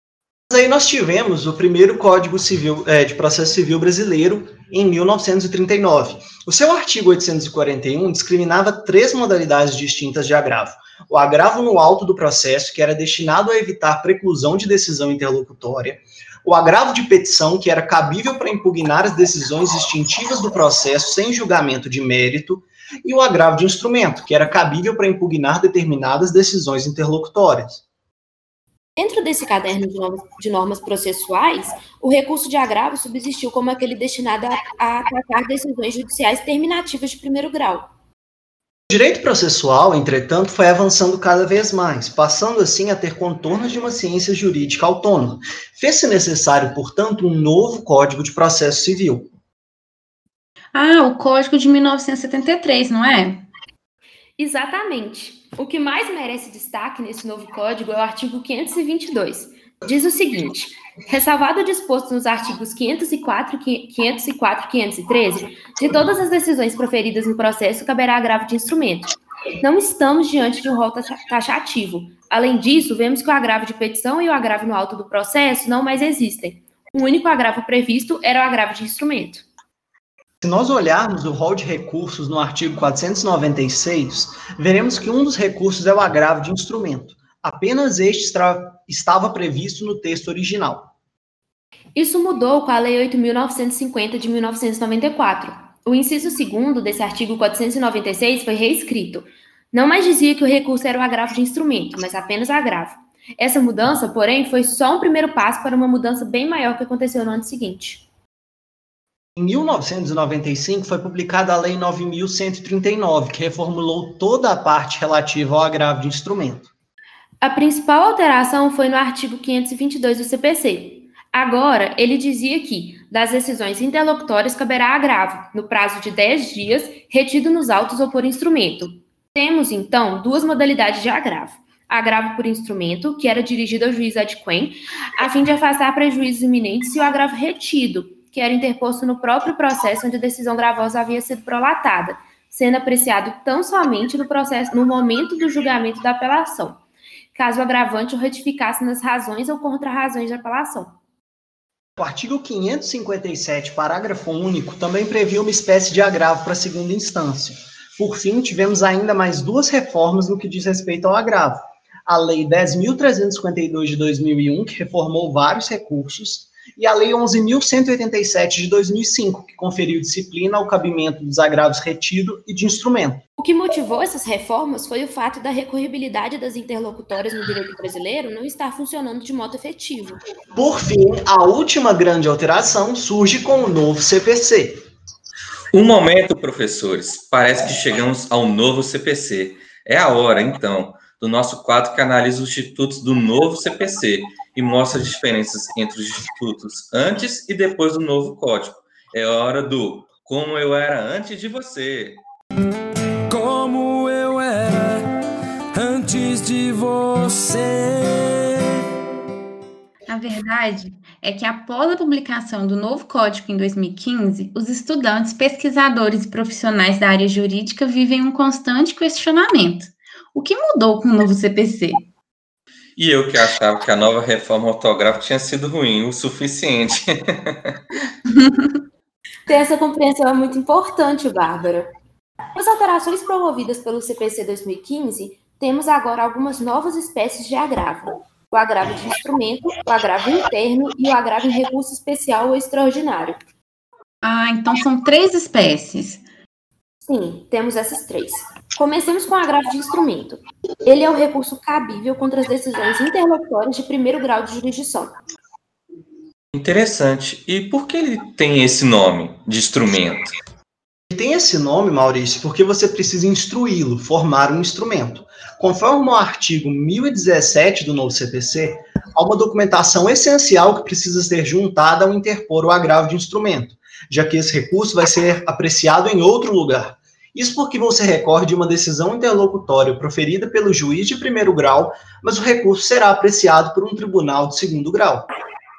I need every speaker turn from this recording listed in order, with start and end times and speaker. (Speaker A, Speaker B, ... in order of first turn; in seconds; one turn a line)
Speaker A: 0.5-27.8
Speaker B: 29.0-37.9
Speaker A: 38.9-49.3
Speaker C: 50.8-53.4
Speaker B: 54.4-79.4
Speaker A: 80.4-90.9
Speaker B: 91.9-108.0
Speaker A: 109.3-116.7
Speaker B: 117.4-146.8
Speaker B: 147.3-150.9
Speaker A: 152.0-173.2
Speaker B: 173.4-180.2
Speaker A: 180.5-184.8
Speaker D: 185.7-202.2
Speaker E: 203.3-205.1
Speaker E: 205.7-208.6
Speaker C: 210.1-222.1
Speaker D: 223.0-227.8
Speaker C: 228.3-228.7
Speaker B: 229.5-231.9
Speaker B: 232.6-243.4
Speaker C: 244.2-246.2
Speaker B: 247.0-255.1
Speaker D: 256.5-260.3
Speaker A: 261.1-285.3